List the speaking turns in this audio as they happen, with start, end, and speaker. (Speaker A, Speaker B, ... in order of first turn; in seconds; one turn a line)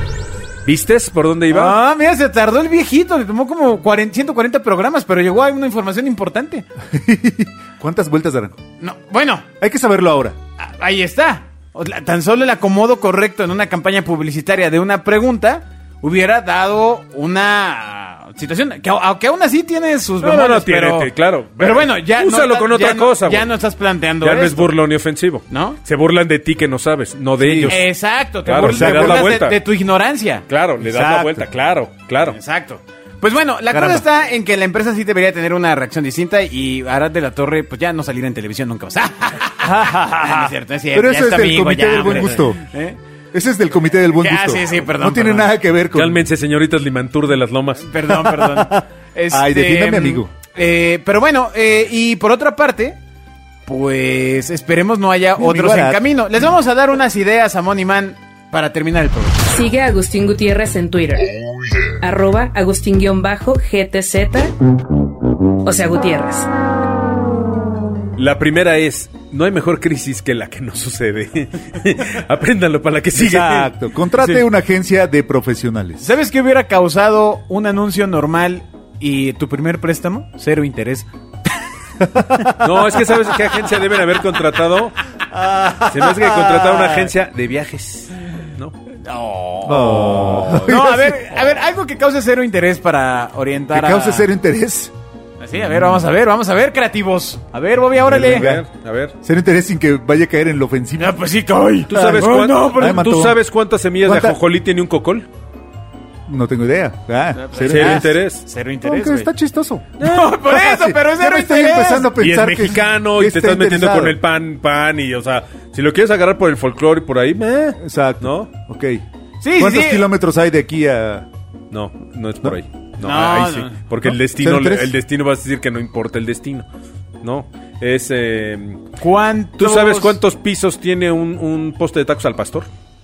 Speaker A: 0.7-1.8
Speaker B: 1.5-6.7
Speaker C: 6.9-8.6
Speaker B: 8.8-9.5
Speaker C: 9.6-10.4
Speaker B: 10.6-24.7
Speaker A: 20.2-23.5
Speaker A: 24.2-27.9
Speaker B: 25.5-25.8
Speaker C: 27.4-27.8
Speaker B: 27.7-30.4
Speaker A: 28.4-29.6
Speaker C: 28.6-29.4
Speaker A: 30.5-32.4
Speaker C: 30.8-31.5
Speaker B: 32.3-43.0
Speaker C: 33.7-34.0
Speaker C: 39.6-42.6
Speaker C: 43.3-46.3
Speaker B: 44.1-45.5
Speaker A: 45.9-47.9
Speaker B: 47.8-53.0
Speaker C: 48.1-50.3
Speaker B: 53.7-59.5
Speaker C: 55.4-56.0
Speaker D: 59.5-61.3
Speaker D: 61.9-64.5
Speaker D: 65.6-66.5
Speaker A: 68.2-73.7
Speaker C: 73.1-76.1
Speaker B: 76.0-81.5
Speaker C: 82.0-82.8
Speaker A: 82.6-84.9
Speaker A: 85.8-88.8
Speaker B: 89.0-94.3
Speaker C: 89.7-91.2
Speaker C: 93.7-94.9
Speaker B: 95.4-98.5
Speaker A: 98.0-99.1
Speaker C: 98.1-98.6
Speaker C: 99.2-101.2
Speaker B: 101.0-103.0
Speaker A: 101.9-105.3
Speaker C: 102.8-103.4
Speaker C: 104.0-104.4
Speaker C: 106.3-108.2
Speaker B: 107.5-109.3
Speaker A: 107.7-108.4
Speaker C: 108.8-114.2
Speaker B: 110.0-112.1
Speaker A: 110.0-110.3
Speaker A: 112.2-118.5
Speaker C: 117.8-119.0
Speaker B: 119.4-120.1
Speaker C: 119.6-121.3
Speaker A: 121.7-126.7
Speaker B: 123.0-123.8
Speaker C: 124.0-124.9
Speaker A: 127.2-128.8
Speaker B: 129.0-130.2
Speaker A: 129.6-132.7